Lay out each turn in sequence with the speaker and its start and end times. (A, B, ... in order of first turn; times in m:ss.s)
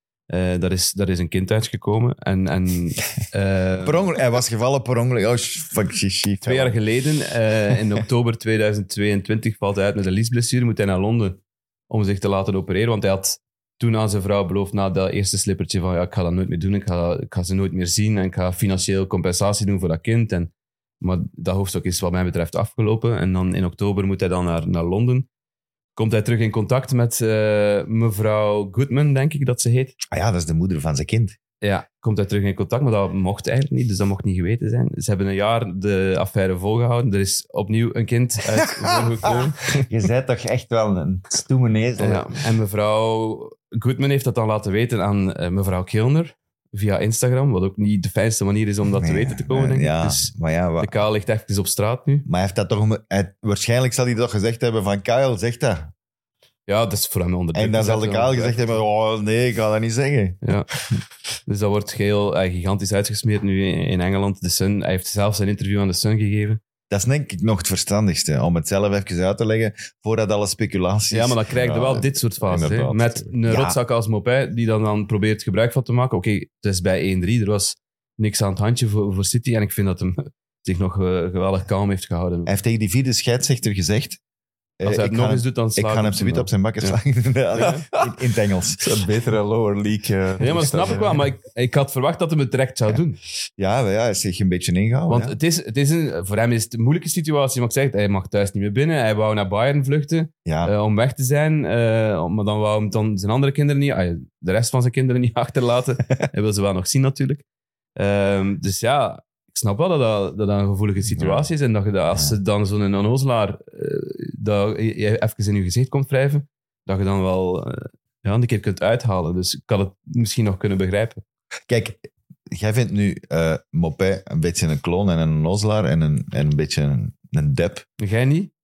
0:00.3-0:04.1 A
0:03.8-0:06.8 B
0:06.4-0:25.3 A
0:26.0-0:30.0 A
0:30.1-0:31.4 B
0:31.6-0:39.8 A
0:38.6-0:42.3 B
0:42.0-0:52.3 A
0:49.0-0:51.0 B
0:52.3-0:55.9 B
0:56.7-0:58.8 A
0:57.6-1:00.4 B
1:00.4-1:00.7 A
1:01.5-1:06.6 A
1:06.9-1:11.4 B
1:11.1-1:22.5 A
1:11.6-1:13.4 C
1:13.5-1:13.8 B
1:22.5-1:24.2 B
1:24.8-1:28.9 B
1:24.8-1:27.0 A
1:27.6-1:27.8 A
1:28.8-1:31.2 C
1:30.4-1:33.2 A
1:33.6-1:35.4 B
1:35.1-1:47.4 A
1:40.4-1:40.7 B
1:48.0-2:01.2 A
1:51.2-1:51.5 C
2:01.7-2:07.8 B
2:08.0-2:08.5 A